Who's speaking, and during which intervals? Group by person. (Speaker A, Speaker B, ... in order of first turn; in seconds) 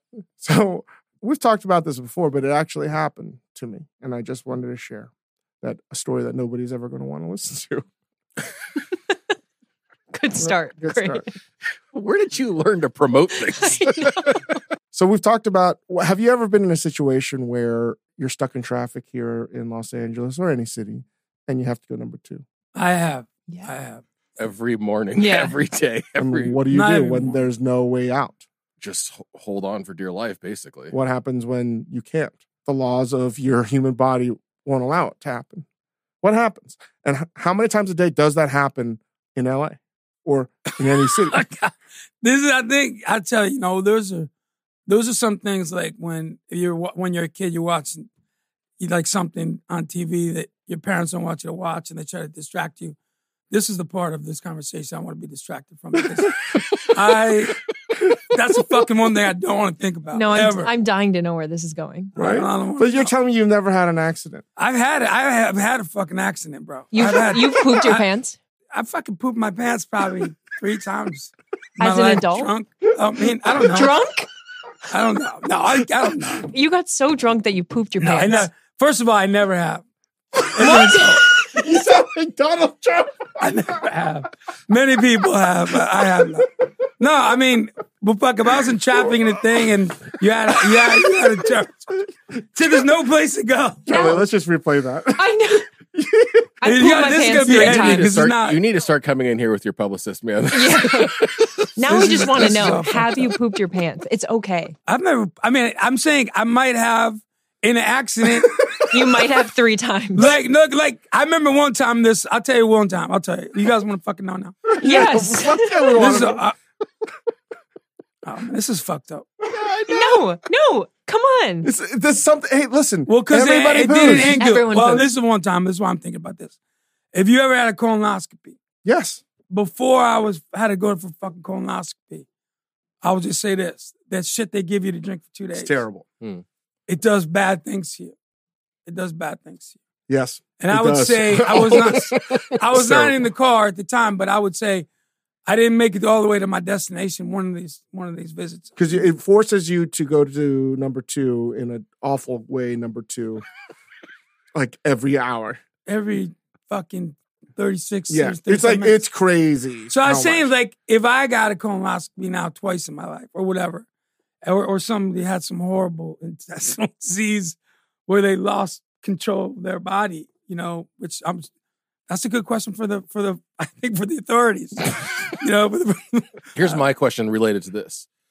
Speaker A: 0.4-5.1, 5.6-7.8, 10.4-11.3, 14.9-22.4, 26.2-28.4, 30.9-35.6, 36.2-41.4, 62.1-64.4, 80.4-83.5, 93.8-95.3, 95.9-96.5, 114.7-116.4, 119.5-119.9, 121.6-124.4, 128.8-129.2, 135.5-136.0, 140.1-143.2, 148.8-153.4, 154.5-155.6, 158.1-160.5
Speaker B: 10.1-11.2, 13.6-14.3, 25.2-25.6, 60.1-62.2, 66.9-68.4, 71.8-72.5, 73.6-74.3, 76.5-78.5, 80.6-81.2, 93.9-94.2, 95.2-95.7, 96.6-98.2, 100.5-101.2, 101.8-104.7, 108.9-110.3, 114.8-116.2, 119.9-121.7, 124.1-125.1
Speaker C: 11.9-14.4, 24.4-26.6, 28.8-30.9, 97.4-101.7, 102.3-102.7, 176.6-178.1
Speaker D: 22.7-24.0, 26.7-27.4, 41.3-44.3, 44.9-48.1, 48.8-53.0, 53.5-57.6, 58.3-60.7, 62.1-63.1, 64.6-68.0, 68.7-74.0, 74.9-76.5, 78.0-79.8, 80.5-81.2, 83.4-91.9, 92.5-93.9, 96.6-98.6, 101.9-103.3, 104.9-108.6, 110.1-114.7, 116.0-116.5, 118.2-119.3, 123.1-126.5, 127.1-128.6, 129.5-132.2, 133.0-135.8, 136.9-138.1, 138.8-139.8, 140.6-144.8, 145.4-149.0, 155.8-159.0, 159.9-163.8, 164.4-171.5, 172.1-176.8